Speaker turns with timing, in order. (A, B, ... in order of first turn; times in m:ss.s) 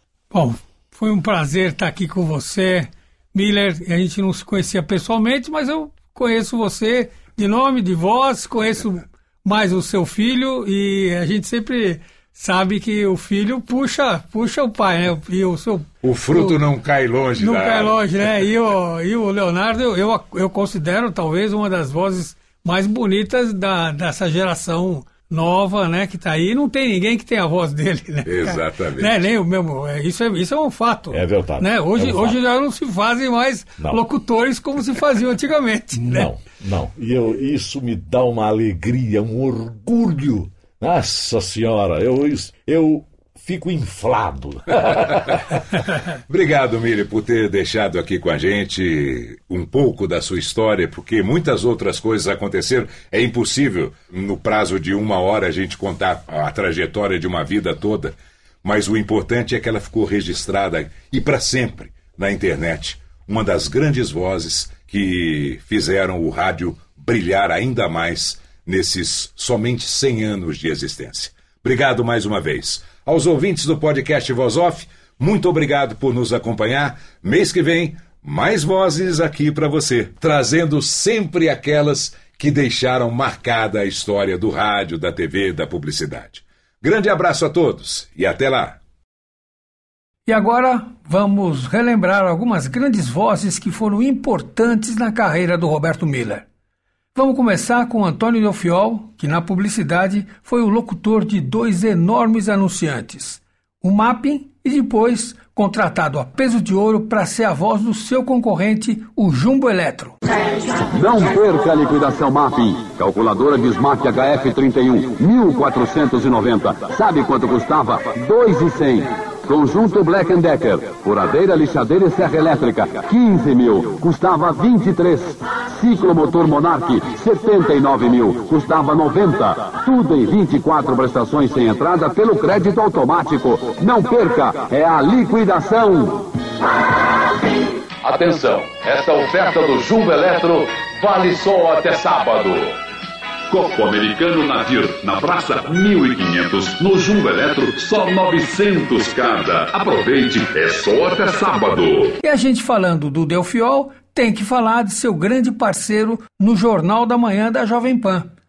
0:00.3-0:16.6 A
0:16.0-0:18.0 B
0:17.4-0:36.3 A
0:28.2-0:29.2 B
0:31.1-0:32.4 C
0:35.9-0:45.4 C
0:46.3-1:28.8 B
1:30.2-1:36.4 A
1:37.1-1:50.2 A
1:50.9-2:16.3 D
2:18.0-2:22.8 E
2:23.5-2:32.2 E
2:32.2-2:38.3 A